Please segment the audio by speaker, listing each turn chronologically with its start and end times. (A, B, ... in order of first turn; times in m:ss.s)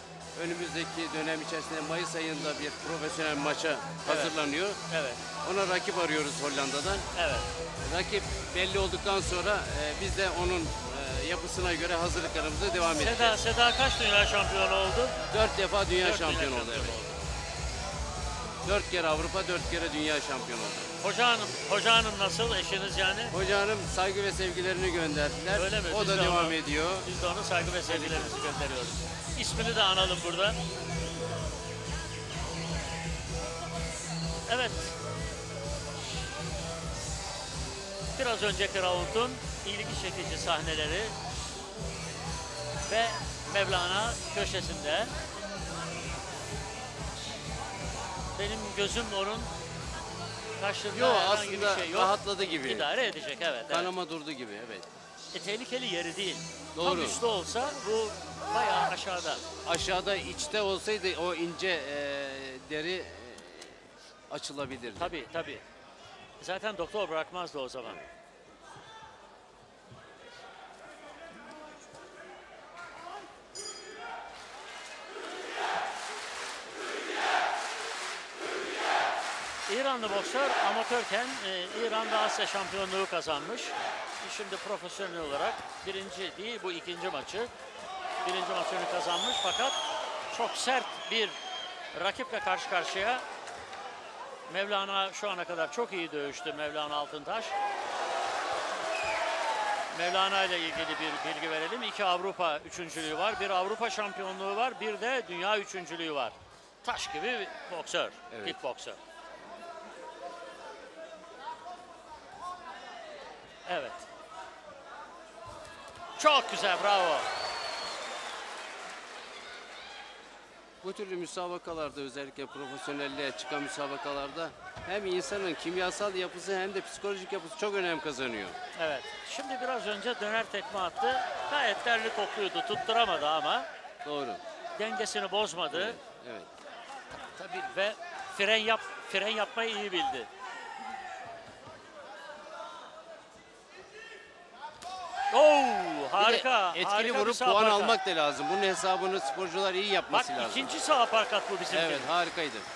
0:00.4-0:04.8 A
0:04.1-0:04.3 B
0:04.9-0:05.2 B
0:05.4-0:07.1 A
0:07.1-0:07.5 B
0:07.8-0:13.4 A
0:13.0-0:15.2 B
0:15.3-0:17.0 A
0:16.0-0:17.2 B
0:18.6-0:20.9 A
0:21.0-0:23.3 B
0:23.3-0:27.1 A
0:25.5-0:30.6 B
0:27.8-0:28.5 A
0:34.5-0:35.0 B
0:38.2-0:41.2 B
0:42.9-0:45.1 B
0:48.4-0:49.5 B
0:50.6-0:53.9 B
0:50.9-0:52.9 A
0:53.7-0:55.0 A
0:55.3-0:59.4 B
0:56.8-0:57.2 A
0:59.6-1:05.1 A
1:04.9-1:05.6 B
1:06.4-1:08.0 B
1:19.7-1:27.5 B
1:28.2-1:29.8 B
1:30.3-1:31.4 B
1:31.9-1:33.2 B
1:34.5-1:37.6 B
1:39.9-1:49.0 B
1:48.3-1:48.6 A
1:53.7-1:54.0 B
1:56.2-1:57.3 B
2:00.8-2:08.6 A
2:08.8-2:13.7 B
2:14.0-2:14.4 A
2:14.8-2:16.0 B
2:15.7-2:16.5 A
2:17.4-2:20.3 B
2:25.3-2:28.0 B
2:26.2-2:30.7 A
2:30.1-2:32.1 B
2:31.7-2:32.7 A